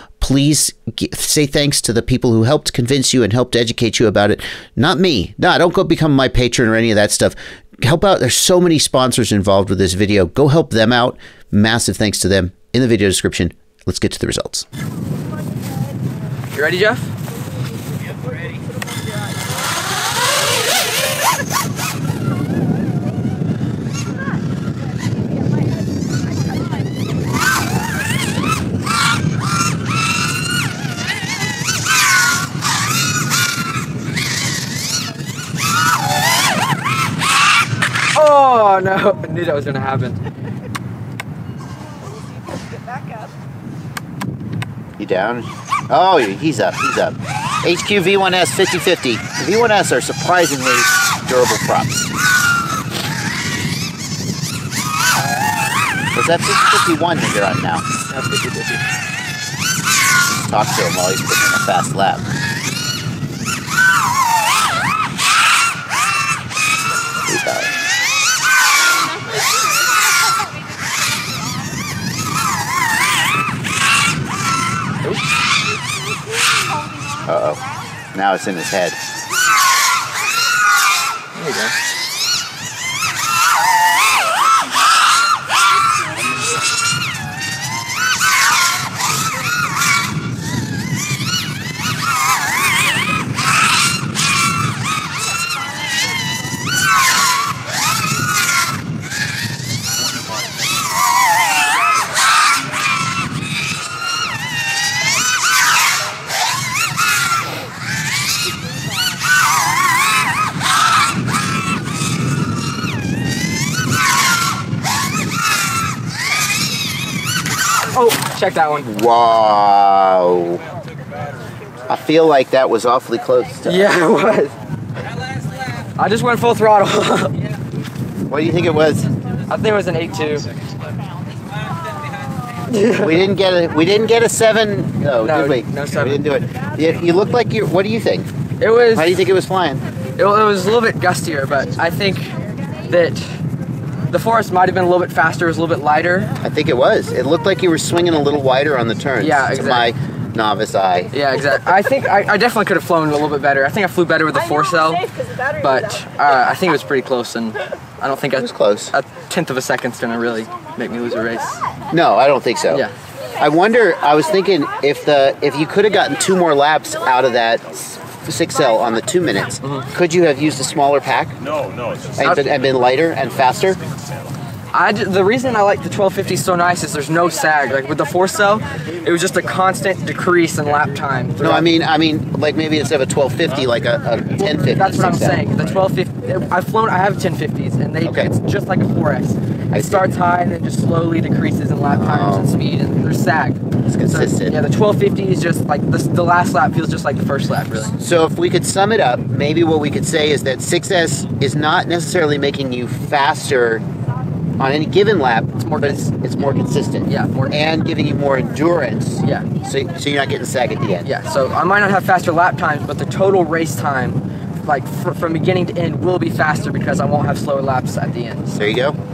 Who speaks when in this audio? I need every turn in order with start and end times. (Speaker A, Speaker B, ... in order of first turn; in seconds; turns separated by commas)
Speaker A: 0.2-14.7, Speaker B: 16.5-17.1, Speaker B: 38.1-40.2, Speaker A: 45.0-52.1, Speaker A: 56.1-57.8, Speaker B: 58.1-58.8, Speaker A: 60.3-62.3, Speaker A: 67.3-67.7, Speaker A: 77.2-77.6, Speaker A: 78.1-79.0, Speaker B: 81.3-81.7, Speaker B: 117.9-118.9, Speaker A: 118.8-120.6, Speaker A: 121.9-123.9, Speaker B: 123.6-124.5, Speaker B: 126.0-127.4, Speaker A: 128.3-129.1, Speaker B: 129.5-130.5, Speaker B: 132.7-133.1, Speaker A: 133.0-138.3, Speaker B: 135.2-136.2, Speaker B: 138.6-139.2, Speaker A: 138.9-139.8, Speaker B: 140.2-142.3, Speaker B: 142.9-143.3, Speaker B: 144.1-146.3, Speaker A: 146.4-151.1, Speaker B: 149.2-149.9, Speaker B: 151.1-155.1, Speaker B: 155.6-161.6, Speaker A: 158.3-158.9, Speaker A: 161.9-162.8, Speaker A: 163.4-171.4, Speaker A: 172.2-173.8, Speaker B: 172.2-172.5, Speaker B: 174.7-181.7, Speaker A: 181.4-185.5, Speaker B: 184.4-197.9, Speaker A: 188.0-188.3, Speaker A: 189.7-190.1, Speaker A: 191.9-192.6, Speaker A: 193.9-194.6, Speaker A: 198.0-203.8, Speaker A: 204.6-211.1, Speaker B: 205.6-206.1, Speaker B: 207.1-207.6, Speaker B: 211.0-218.7, Speaker A: 218.5-219.0